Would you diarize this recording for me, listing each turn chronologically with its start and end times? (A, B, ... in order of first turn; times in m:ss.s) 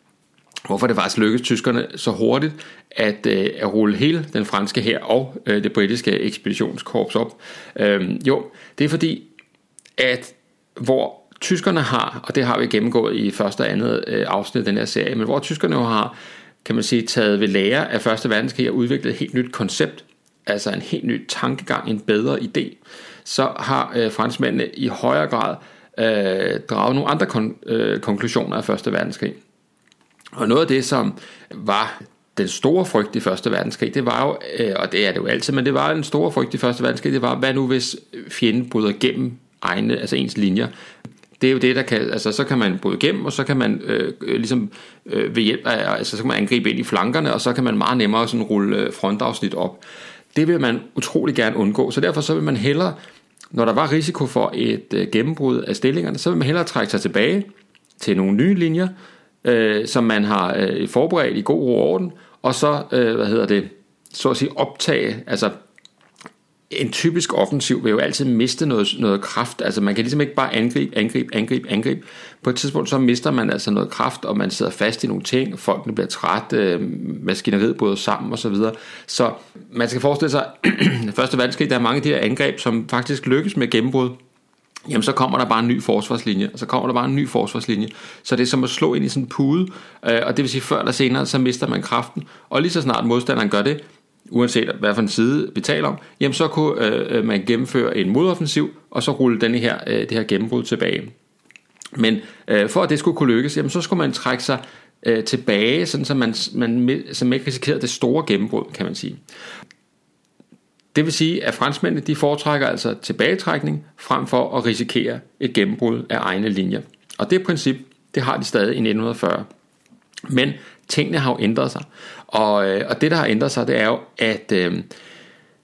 0:00.7-0:09.3 A
0:10.0-0:29.4 A
0:30.4-0:40.7 A
0:41.4-0:49.8 A
0:50.3-0:53.0 A
0:53.5-0:58.9 A
0:59.4-1:05.5 A
1:06.7-1:24.2 A
1:24.9-1:41.1 A
1:42.0-1:49.2 A
1:50.9-1:59.5 A
2:00.3-2:04.9 A